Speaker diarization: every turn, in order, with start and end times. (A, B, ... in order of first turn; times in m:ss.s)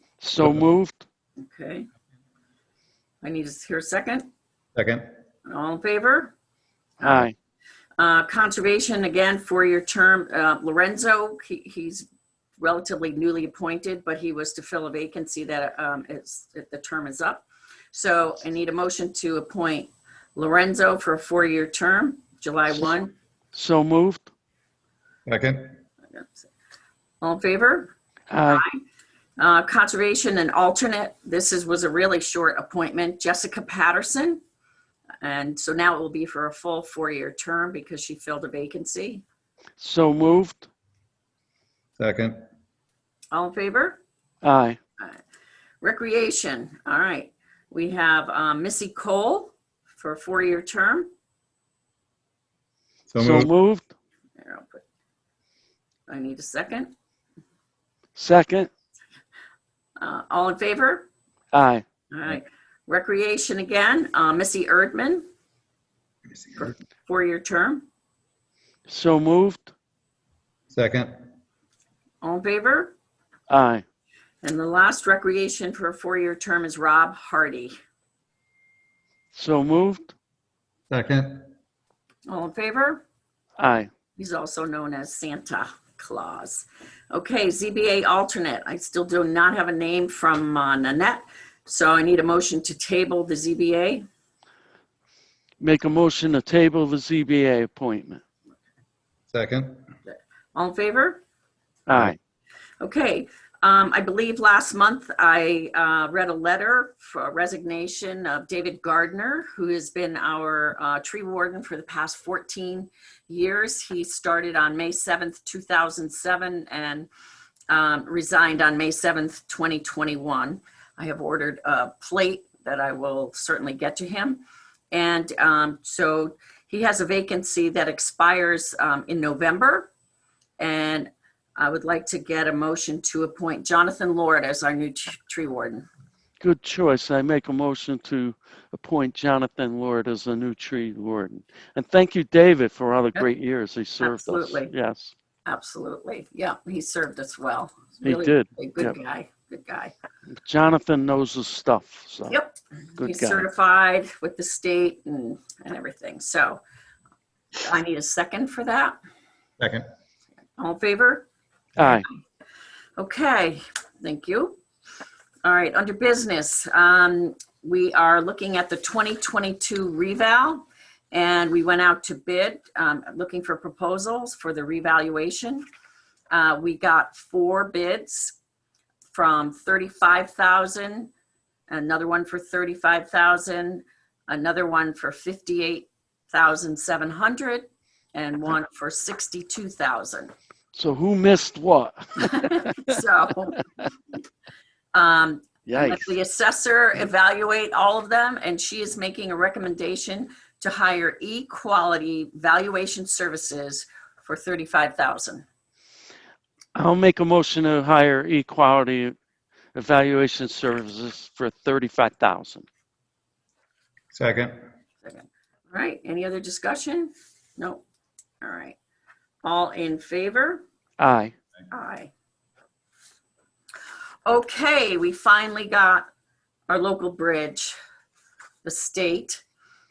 0:00.2-0:01.0 A
0:00.4-0:00.7 B
0:01.4-0:01.9 C
0:03.2-0:04.2 C
0:04.7-0:05.0 B
0:05.5-0:06.3 C
0:07.0-0:07.3 A
0:08.0-0:12.1 C
0:12.6-0:23.1 C
0:23.5-0:24.3 A
0:25.3-0:25.7 B
0:26.1-0:26.5 C
0:27.2-0:28.8 C
0:28.3-0:28.6 A
0:29.4-0:34.4 C
0:35.2-0:39.2 C
0:39.8-0:40.7 A
0:42.0-0:42.4 B
0:43.3-0:44.0 C
0:44.4-0:44.8 A
0:45.8-0:51.1 C
0:53.1-0:53.5 B
0:53.2-0:53.9 A
0:54.4-0:54.8 C
0:56.1-0:56.9 C
0:58.1-0:58.7 A
1:00.0-1:01.1 C
1:01.5-1:01.8 A
1:02.1-1:05.2 C
1:06.6-1:07.8 C
1:08.9-1:09.7 A
1:10.7-1:11.1 B
1:12.2-1:12.9 C
1:13.5-1:13.8 A
1:14.4-1:17.7 C
1:19.3-1:20.1 A
1:20.9-1:21.4 B
1:22.3-1:23.0 C
1:23.6-1:23.9 A
1:24.2-1:34.0 C
1:35.6-1:38.2 A
1:39.3-1:39.8 B
1:40.1-1:41.2 C
1:41.9-1:42.2 A
1:42.8-1:57.1 C
1:57.7-2:09.9 C
2:10.6-2:15.9 C
2:16.4-2:25.1 A
2:24.0-2:24.7 C
2:25.4-2:29.9 C
2:28.0-2:29.0 A
2:30.4-2:32.4 A
2:32.3-2:36.6 C
2:33.0-2:33.5 A
2:37.6-2:38.9 C
2:39.6-2:39.8 B
2:40.6-2:41.2 C
2:41.8-2:42.1 A
2:43.0-2:44.6 C
2:45.4-2:55.6 C
2:56.3-2:58.4 C
2:59.1-3:01.1 C
3:01.7-3:10.3 C
3:10.7-3:13.0 A
3:12.2-3:13.6 C
3:14.9-3:25.4 C
3:15.6-3:16.1 A
3:26.7-3:29.2 A
3:29.7-3:32.6 A
3:34.1-3:34.6 B
3:35.0-3:37.8 C
3:38.4-3:38.8 C
3:39.4-3:40.6 C
3:41.0-3:41.3 A
3:41.7-3:42.1 C
3:44.2-3:46.0 C
3:46.7-3:47.8 C
3:48.6-3:49.4 C